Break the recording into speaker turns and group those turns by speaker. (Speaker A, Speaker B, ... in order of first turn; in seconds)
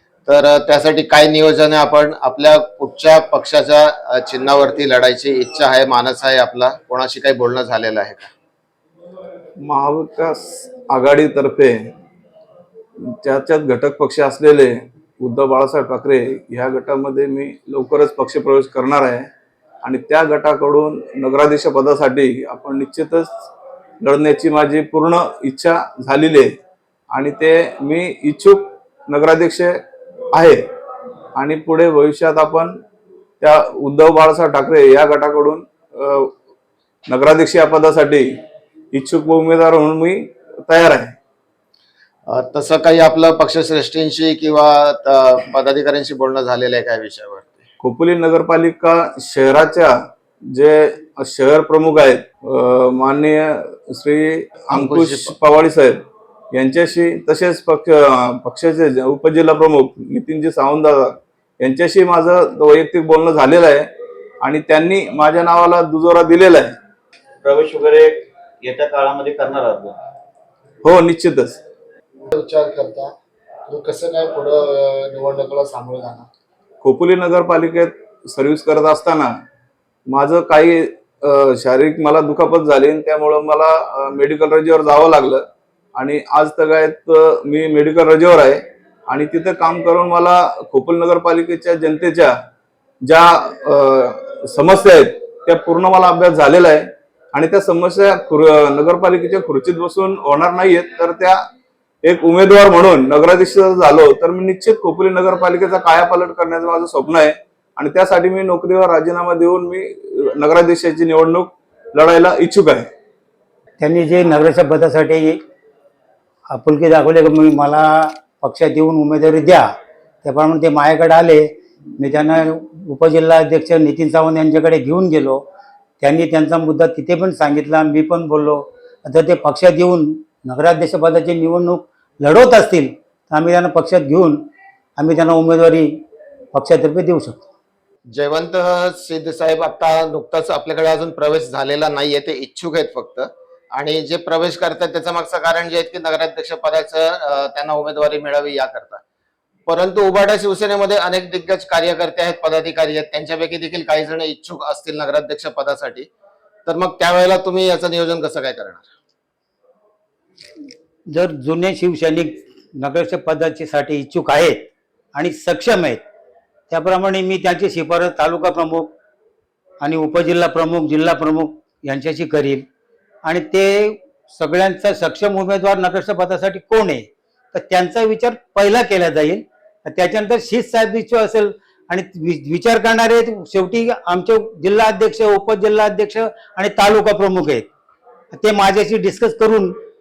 Speaker A: 0.2-8.3, 42.3-47.6, 54.7-55.3, 138.1-149.0, 149.7-156.1, 156.6-158.9
Speaker B: 9.6-11.8, 13.2-19.3, 19.8-23.3, 24.0-26.5, 27.1-29.8, 30.3-30.6, 31.4-32.7, 33.4-36.3, 37.1-38.3, 38.9-41.1, 47.8-49.9, 50.5-56.0, 56.5-63.9, 64.4-66.7, 70.8-71.6, 76.8-79.3, 80.1-85.4, 86.0-92.3, 93.1-101.4, 102.0-112.9
Speaker C: 67.4-70.0
Speaker D: 72.2-73.1, 73.7-76.3
Speaker E: 113.8-115.4, 116.5-119.7, 120.2-121.5, 122.0-125.4, 126.0-134.4, 135.0-135.9, 136.5-137.5, 161.1-166.0, 166.7-168.9, 169.8-172.7, 173.2-187.7, 188.3-189.7